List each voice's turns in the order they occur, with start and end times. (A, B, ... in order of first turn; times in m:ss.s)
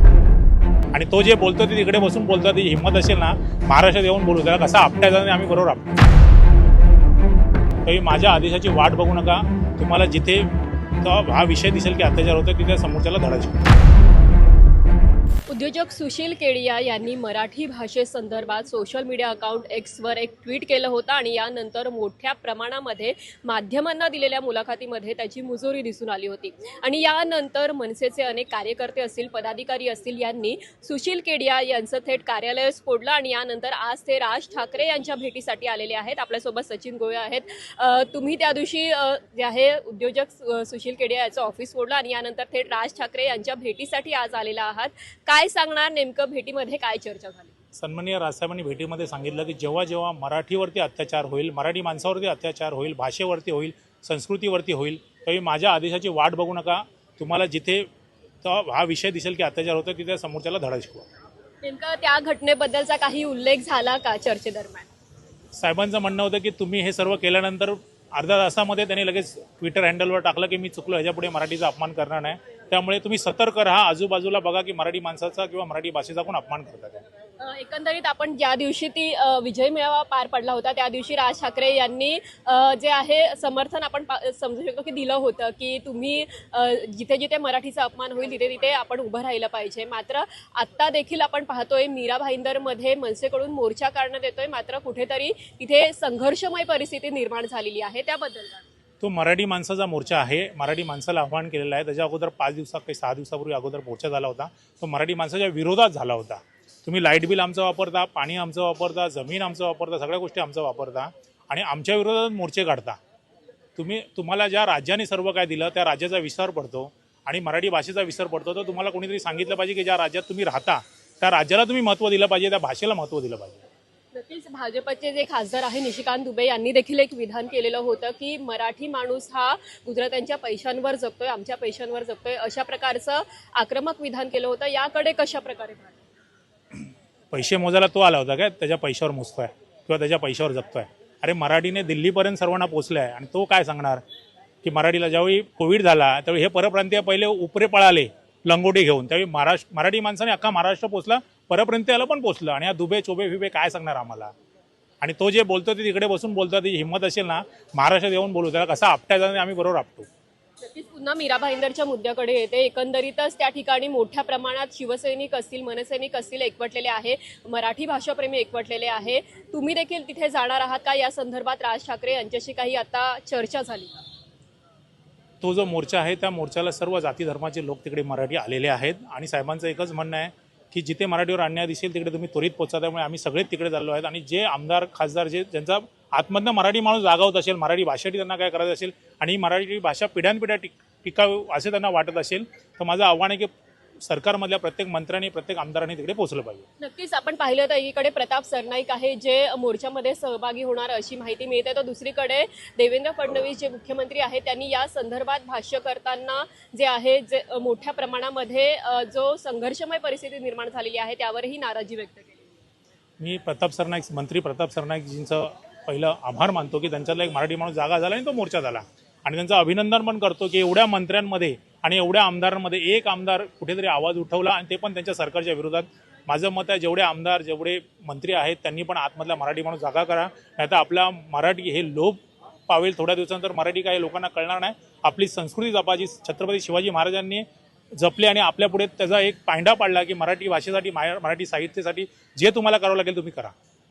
0:00.9-0:05.9 A
0:07.8-0:13.7 A
0:15.5-0:47.6 B
0:47.8-0:57.9 A
0:58.4-1:01.1 A
1:01.6-1:04.9 B
1:05.6-1:17.0 A
1:17.4-1:38.6 B
1:39.0-1:53.0 A
1:53.8-2:03.6 A
2:04.1-2:16.0 B
2:17.3-2:24.0 A
2:24.6-2:34.3 A
2:35.0-2:40.1 A
2:40.7-2:54.0 B
2:55.4-3:16.7 A
3:16.8-3:32.5 B
3:33.2-4:03.5 A